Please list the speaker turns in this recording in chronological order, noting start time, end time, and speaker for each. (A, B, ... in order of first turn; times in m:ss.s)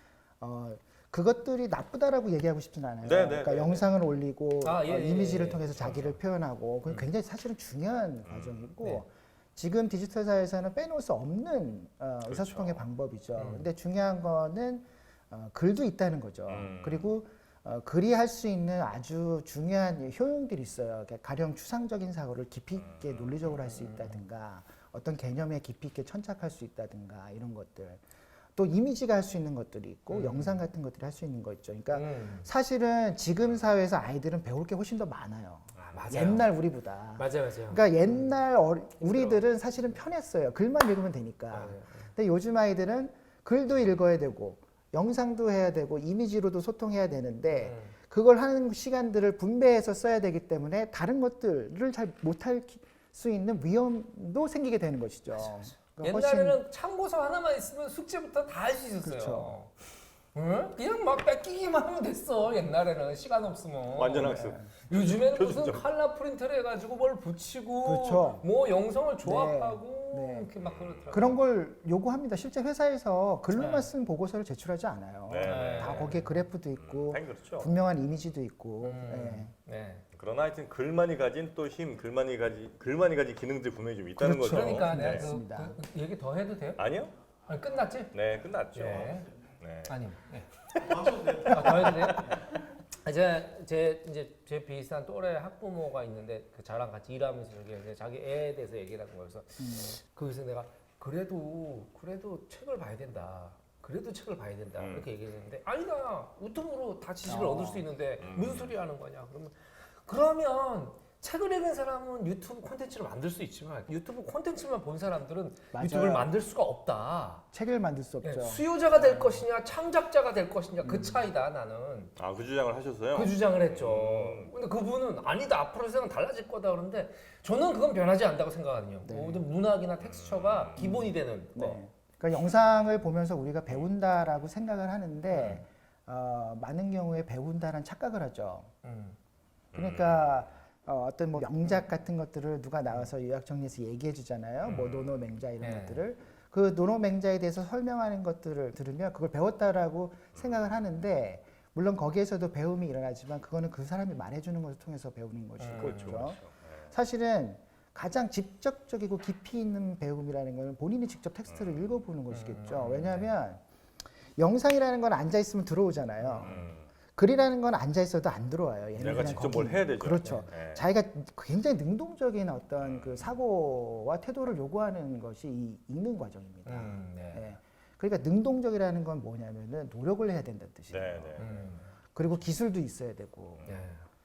0:00.4-0:28.0 A
0:03.0-0:03.9 B
0:04.6-0:06.1 C
0:08.2-0:08.7 B
0:12.2-0:12.8 B
0:13.4-0:13.7 C
0:16.5-0:17.1 B
0:22.8-0:23.5 B
0:23.6-0:24.2 C
0:28.6-0:56.6 A
0:30.1-0:30.6 C
0:31.9-0:32.5 C
0:35.8-0:36.5 C
0:37.2-0:38.3 C
0:39.0-0:39.4 C
0:41.5-0:42.1 C
0:47.5-0:47.9 C
0:55.3-0:59.7 C
0:59.0-0:59.5 A
1:00.3-1:11.4 C
1:03.9-1:05.8 B
1:04.2-1:04.7 A
1:07.8-1:08.5 A
1:09.2-1:10.5 A
1:10.6-1:11.2 B
1:11.1-1:19.5 A
1:13.5-1:13.9 C
1:15.3-1:16.1 B
1:15.4-1:16.4 C
1:16.8-1:17.7 B
1:18.8-1:20.0 C
1:20.1-1:25.3 B
1:24.2-1:25.8 A
1:24.4-1:26.8 C
1:26.8-1:27.1 B
1:27.5-1:28.1 C
1:28.1-1:30.0 B
1:28.7-1:29.3 C
1:29.8-1:32.4 C
1:31.1-1:31.5 B
1:33.0-1:57.4 C
1:39.6-1:39.9 A
1:44.8-1:45.1 B
1:47.2-1:47.8 A
1:48.2-1:48.7 B
1:55.7-1:56.3 A
1:57.5-1:59.4 A
1:58.2-2:02.1 C
2:00.8-2:01.2 A
2:02.2-2:04.5 B
2:03.1-2:11.8 C
2:09.0-2:09.4 A
2:10.0-2:10.8 B
2:10.8-2:18.7 A
2:15.3-2:15.6 C
2:18.8-2:19.2 C
2:19.7-2:20.4 B
2:19.7-2:43.6 A
2:24.6-2:25.2 B
2:25.6-2:26.0 C
2:35.6-2:36.4 C
2:35.8-2:36.9 B
2:41.5-2:41.9 B
2:42.3-2:43.3 C
2:44.4-2:46.6 A
2:46.2-2:46.7 C
2:46.4-2:46.9 B
2:47.1-3:03.7 A
2:49.0-2:50.9 B
2:49.1-2:50.5 C
2:52.8-2:53.3 B
2:56.6-2:57.5 C
3:00.9-3:01.5 B
3:01.4-3:01.8 C
3:03.6-3:04.0 C